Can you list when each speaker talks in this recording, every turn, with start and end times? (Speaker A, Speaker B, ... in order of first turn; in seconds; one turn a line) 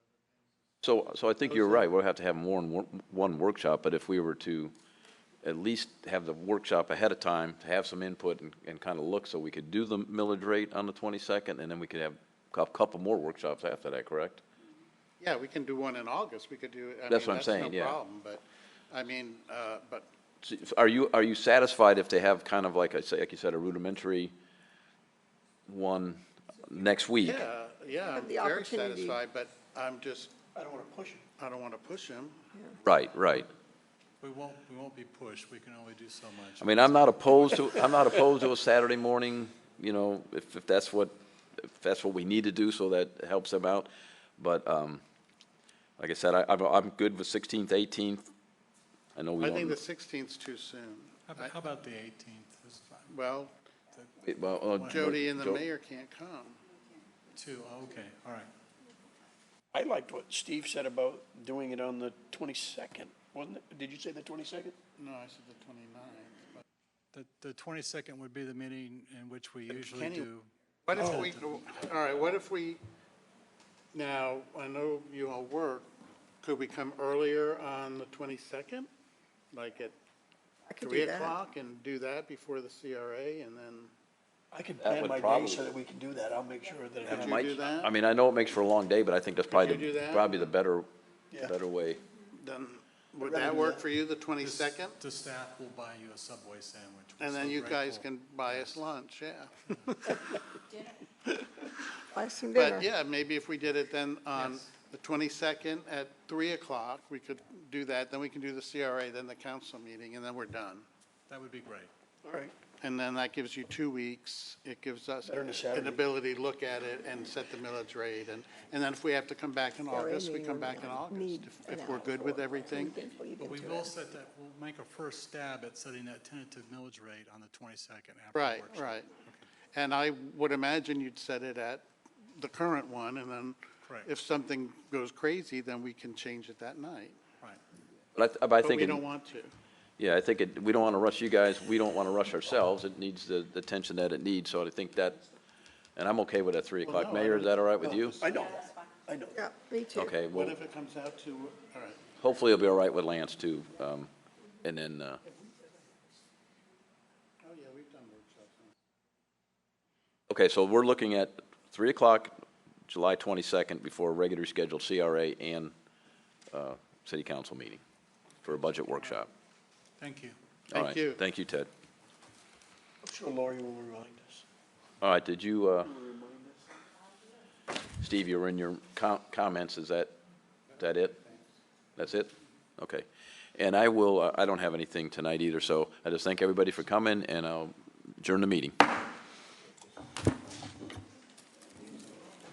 Speaker A: 0.8-4.7
Speaker B: 1.5-1.8
Speaker A: 5.4-14.4
Speaker B: 15.2-20.1
Speaker A: 17.1-18.0
Speaker A: 20.4-24.3
Speaker A: 25.7-27.4
Speaker B: 27.2-30.4
Speaker C: 28.1-29.2
Speaker D: 30.5-31.2
Speaker B: 31.4-32.5
Speaker A: 32.8-33.5
Speaker E: 34.2-37.8
Speaker A: 36.6-45.0
Speaker A: 46.0-48.3
Speaker A: 49.1-49.8
Speaker B: 49.4-51.5
Speaker E: 51.3-53.1
Speaker B: 53.1-53.5
Speaker A: 54.2-55.6
Speaker B: 54.8-56.6
Speaker E: 57.3-58.5
Speaker D: 59.7-64.8
Speaker B: 65.0-66.6
Speaker E: 67.1-71.7
Speaker B: 69.7-70.3
Speaker B: 70.9-72.8
Speaker B: 73.9-75.9
Speaker B: 76.4-78.9
Speaker B: 79.5-80.0
Speaker C: 80.7-81.4
Speaker B: 80.8-83.9
Speaker D: 84.5-87.6
Speaker A: 84.8-85.6
Speaker B: 87.0-87.9
Speaker A: 87.0-92.0
Speaker B: 89.5-90.5
Speaker B: 92.3-94.9
Speaker D: 93.2-93.8
Speaker E: 94.4-98.8
Speaker B: 97.2-100.2
Speaker E: 99.7-100.0
Speaker C: 102.1-102.9
Speaker B: 102.5-110.8
Speaker E: 104.3-104.7
Speaker E: 111.3-111.9
Speaker D: 112.2-112.5
Speaker B: 112.8-123.0
Speaker D: 115.2-116.0
Speaker C: 119.9-123.9
Speaker E: 123.4-129.4
Speaker B: 128.3-129.1
Speaker B: 129.7-137.2
Speaker A: 138.1-139.0
Speaker B: 138.6-139.5
Speaker A: 140.0-145.2
Speaker A: 145.9-148.2
Speaker D: 146.8-149.4
Speaker B: 147.9-148.3
Speaker C: 149.3-150.1
Speaker A: 149.9-150.6
Speaker B: 150.3-152.0
Speaker A: 152.2-154.1
Speaker A: 154.6-155.2
Speaker B: 157.4-158.7
Speaker A: 160.3-165.7
Speaker A: 166.5-167.8
Speaker A: 168.4-169.3
Speaker E: 170.0-170.4
Speaker B: 170.7-171.2
Speaker A: 170.7-171.7
Speaker D: 173.0-174.4
Speaker A: 175.0-175.9
Speaker D: 175.8-176.6
Speaker A: 178.0-180.1
Speaker A: 180.8-181.2
Speaker A: 182.0-188.8